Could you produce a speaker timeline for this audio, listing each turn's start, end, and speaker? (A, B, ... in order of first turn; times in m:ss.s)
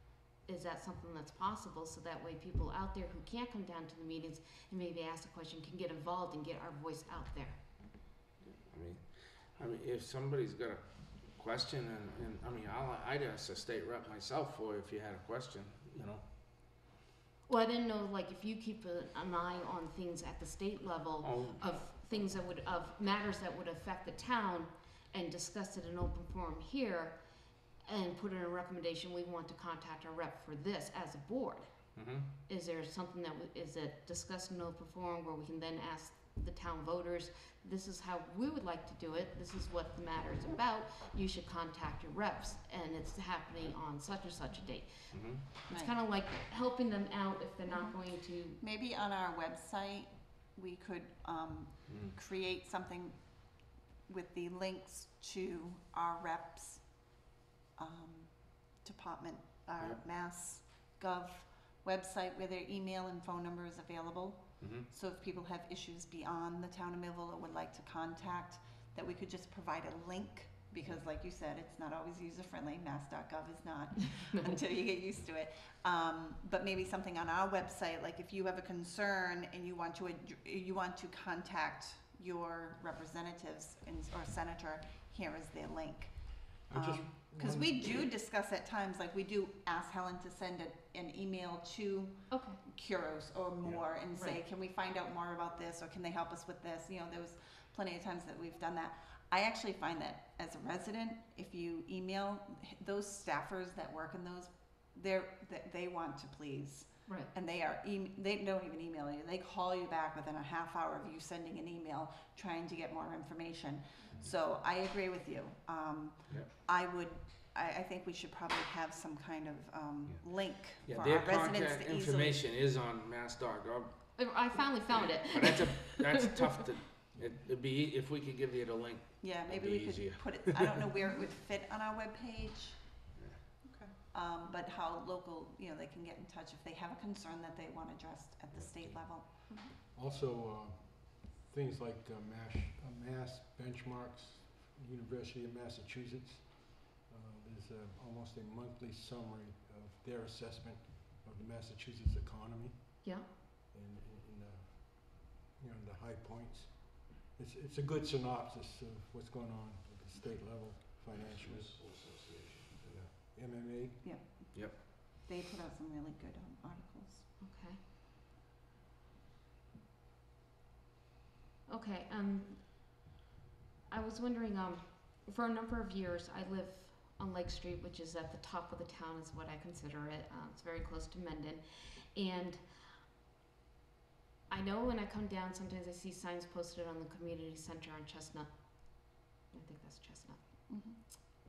0:00.4-0:07.6 A
0:08.4-0:16.3 B
0:17.5-0:27.2 A
0:21.2-0:21.7 B
0:27.8-0:48.6 A
0:32.0-0:32.3 B
0:45.1-0:45.4 B
0:47.7-0:48.0 C
0:48.6-0:57.2 C
0:51.9-0:52.2 B
0:57.8-2:02.4 C
1:04.6-1:04.9 B
1:26.7-1:28.0 D
1:32.3-1:32.6 A
1:34.1-1:34.4 A
1:47.1-1:47.3 A
2:00.1-2:04.6 B
2:04.2-2:06.1 A
2:05.2-2:10.7 B
2:09.2-2:12.8 C
2:13.2-2:13.4 B
2:13.7-2:19.7 C
2:18.6-2:19.0 B
2:19.9-2:33.2 D
2:33.7-2:41.7 D
2:41.2-2:43.0 B
2:42.9-2:44.0 D
2:44.0-2:47.3 C
2:44.5-2:44.8 B
2:47.4-2:47.8 A
2:51.7-2:52.9 A
2:53.9-3:03.0 A
3:04.5-3:11.2 A
3:10.7-3:11.0 C